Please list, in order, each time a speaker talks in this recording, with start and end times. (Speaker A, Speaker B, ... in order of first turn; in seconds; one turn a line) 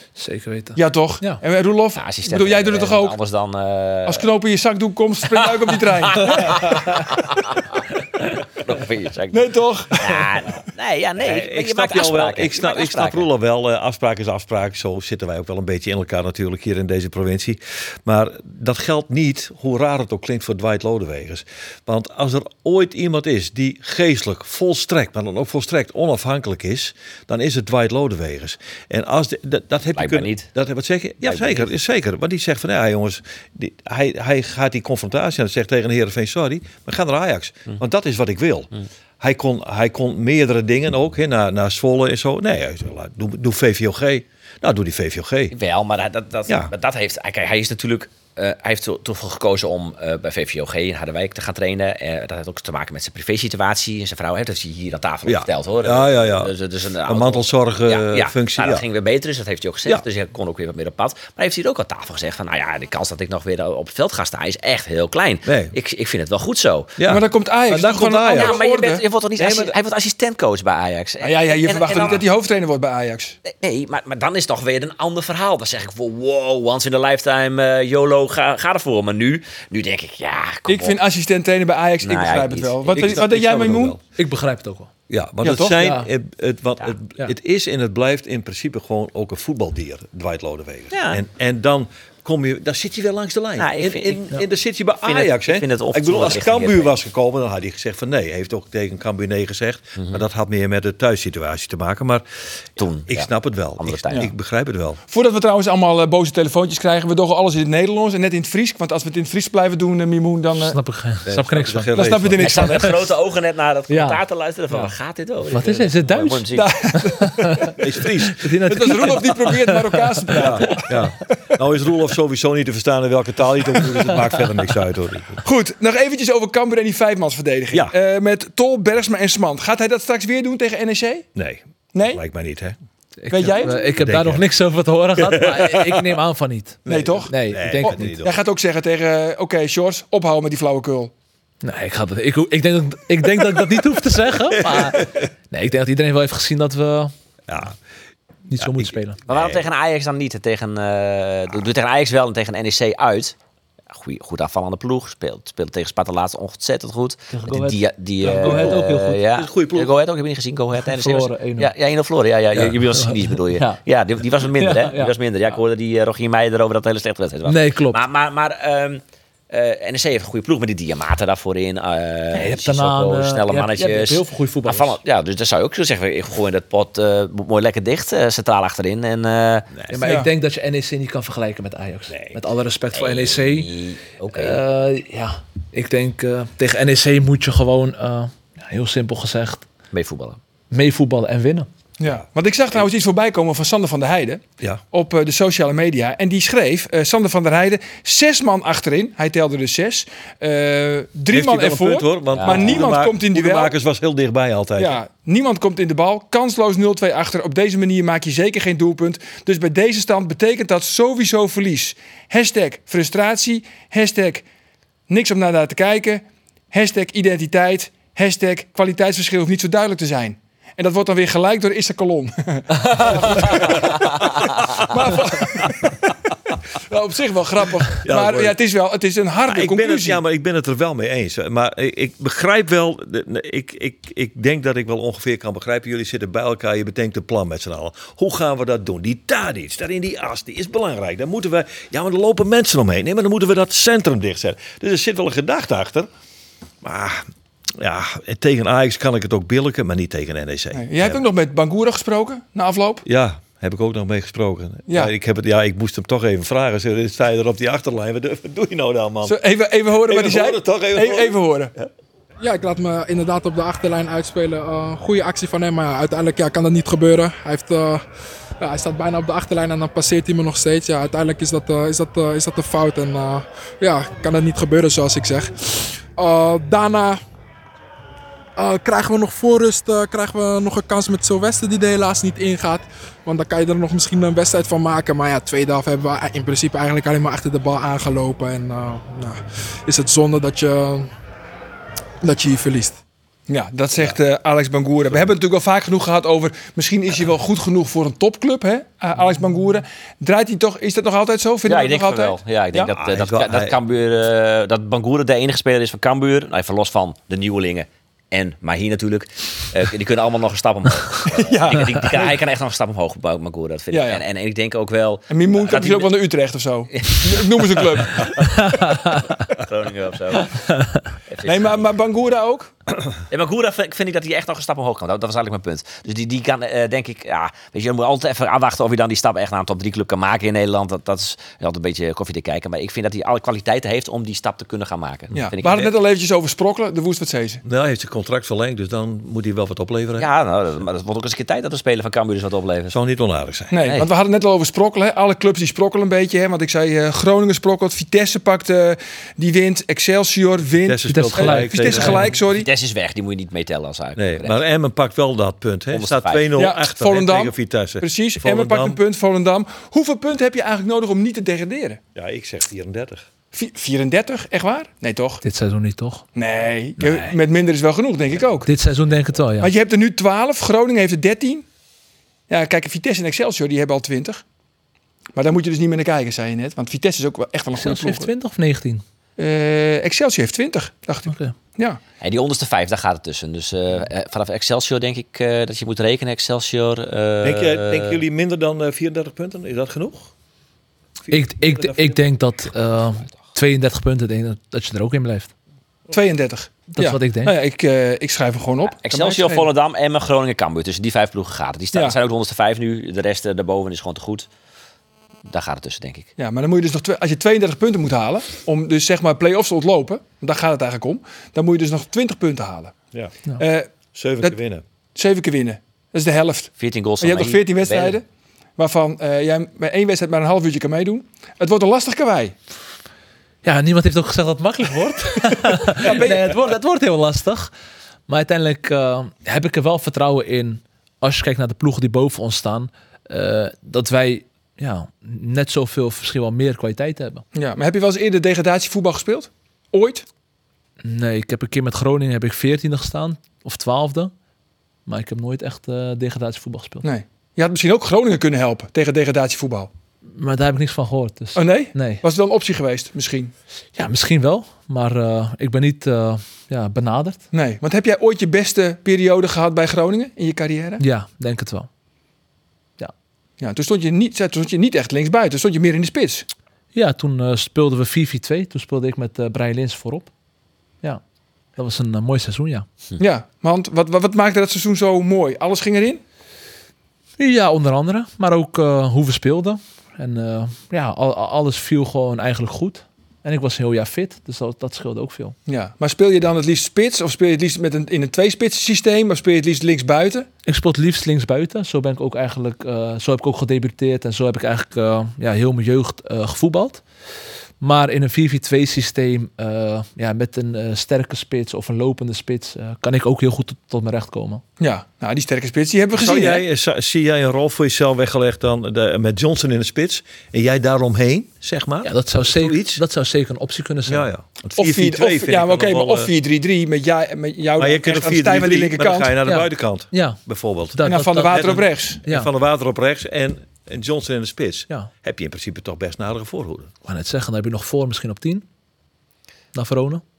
Speaker A: 0.1-1.4
Speaker B: 0.8-3.1
Speaker C: 1.9-4.3
Speaker B: 4.1-7.0
Speaker C: 5.3-13.3
Speaker B: 9.3-10.4
Speaker D: 11.2-45.5
Speaker C: 29.9-30.5
Speaker C: 31.2-31.7
Speaker C: 45.5-67.0
Speaker D: 46.5-46.7
Speaker D: 55.2-56.5
Speaker D: 57.0-58.8
Speaker D: 65.4-65.7
Speaker D: 67.0-68.6
Speaker B: 67.0-69.0
Speaker C: 68.3-72.2
Speaker A: 69.4-69.7
Speaker B: 71.2-73.4
Speaker C: 73.5-81.0
Speaker B: 80.7-84.0
Speaker C: 82.0-83.2
Speaker D: 82.9-84.0
Speaker A: 84.2-84.9
Speaker D: 85.1-102.2
Speaker B: 85.4-85.8
Speaker A: 85.8-86.1
Speaker C: 90.9-91.2
Speaker C: 93.6-94.3
Speaker C: 95.0-97.0
Speaker C: 100.0-100.2
Speaker C: 102.8-104.3
Speaker D: 103.1-105.0
Speaker B: 105.1-110.8
Speaker A: 110.5-112.8
Speaker D: 111.3-112.5
Speaker B: 111.9-113.0
Speaker C: 112.4-116.8
Speaker A: 113.9-114.9
Speaker A: 115.5-117.7
Speaker B: 116.5-117.8
Speaker D: 117.8-118.5
Speaker A: 118.3-120.4
Speaker B: 118.7-121.1
Speaker D: 120.3-125.4
Speaker B: 125.4-131.3
Speaker D: 131.3-132.8
Speaker B: 131.9-132.2
Speaker A: 133.2-138.2
Speaker B: 133.3-133.9
Speaker D: 134.0-134.4
Speaker D: 135.2-136.1
Speaker D: 136.9-138.4
Speaker B: 136.9-141.1
Speaker A: 141.6-147.1
Speaker D: 144.5-145.3
Speaker D: 147.5-147.8
Speaker A: 148.5-149.2
Speaker D: 148.6-149.6
Speaker C: 149.3-153.3
Speaker C: 153.9-179.7
Speaker A: 157.3-159.2
Speaker D: 158.3-159.9
Speaker A: 160.8-161.7
Speaker A: 163.0-163.8
Speaker A: 164.6-165.1
Speaker A: 167.4-168.0
Speaker A: 172.3-175.0
Speaker D: 179.7-180.1
Speaker A: 179.9-183.7
Speaker B: 180.0-180.3
Speaker D: 182.1-182.4
Speaker C: 182.9-184.6
Speaker A: 184.3-189.7
Speaker C: 189.9-190.4
Speaker A: 190.7-191.7
Speaker B: 192.0-203.7
Speaker D: 201.3-205.0
Speaker C: 202.3-202.9
Speaker B: 204.8-214.4
Speaker B: 215.1-226.1
Speaker D: 223.4-223.7
Speaker D: 224.6-225.7
Speaker B: 226.9-230.2
Speaker D: 228.0-228.6
Speaker D: 229.5-246.1
Speaker D: 246.8-247.3
Speaker D: 247.8-251.2
Speaker B: 250.7-253.0
Speaker D: 253.0-259.4
Speaker B: 254.9-255.1
Speaker B: 259.2-261.7
Speaker D: 259.9-261.9
Speaker E: 262.4-268.0
Speaker E: 268.6-275.5
Speaker E: 276.1-277.2
Speaker E: 278.6-291.1
Speaker E: 292.2-293.0
Speaker B: 293.5-302.9
Speaker C: 301.6-316.2
Speaker D: 303.0-303.8
Speaker B: 311.3-312.4
Speaker B: 313.9-314.2
Speaker B: 315.3-318.6
Speaker C: 316.9-318.3
Speaker A: 318.6-319.2
Speaker C: 319.6-320.5
Speaker A: 320.7-321.0
Speaker C: 321.3-321.9
Speaker B: 321.4-322.7
Speaker C: 323.3-335.9
Speaker B: 335.3-337.6
Speaker D: 337.6-340.3
Speaker C: 340.2-342.9
Speaker D: 342.9-343.9
Speaker B: 343.7-352.7
Speaker D: 350.8-352.3
Speaker A: 351.1-352.3
Speaker C: 352.3-354.6
Speaker D: 354.2-359.0
Speaker C: 355.9-356.5
Speaker B: 356.6-362.0
Speaker D: 362.1-363.3
Speaker B: 363.5-365.4
Speaker A: 365.4-366.2
Speaker B: 366.3-368.7
Speaker A: 367.0-367.3
Speaker A: 368.6-369.7
Speaker B: 369.6-371.6
Speaker B: 372.5-374.4
Speaker B: 375.3-378.3
Speaker A: 377.8-379.0
Speaker B: 379.4-382.0
Speaker A: 381.3-381.5
Speaker C: 382.2-388.2
Speaker D: 387.4-390.3
Speaker D: 391.3-392.2
Speaker A: 391.3-395.5
Speaker B: 396.1-399.7
Speaker A: 396.9-397.5
Speaker C: 398.9-404.4
Speaker C: 405.5-406.3
Speaker B: 406.4-412.9
Speaker B: 413.6-413.9
Speaker D: 414.1-414.8
Speaker B: 415.1-418.2
Speaker C: 416.8-418.2
Speaker B: 418.8-422.5
Speaker A: 423.6-427.7
Speaker B: 425.9-426.6
Speaker A: 428.3-437.4
Speaker B: 437.5-440.2
Speaker A: 441.0-444.3
Speaker A: 445.1-447.0
Speaker B: 447.0-449.9
Speaker A: 450.3-452.2
Speaker B: 451.5-453.5
Speaker A: 453.9-457.4
Speaker B: 457.5-461.0
Speaker A: 461.0-461.9
Speaker B: 463.6-466.4
Speaker A: 466.9-470.3
Speaker A: 471.8-472.9
Speaker B: 473.2-476.2
Speaker A: 477.4-485.6
Speaker B: 485.7-490.5
Speaker A: 490.6-497.0
Speaker A: 497.8-504.6
Speaker B: 504.8-506.6
Speaker D: 506.1-513.0
Speaker A: 512.0-514.3
Speaker D: 514.0-516.3
Speaker B: 514.8-519.3
Speaker D: 517.8-526.9
Speaker A: 519.4-520.4
Speaker A: 520.9-522.5
Speaker B: 521.0-522.2
Speaker A: 527.0-528.6
Speaker A: 529.7-530.2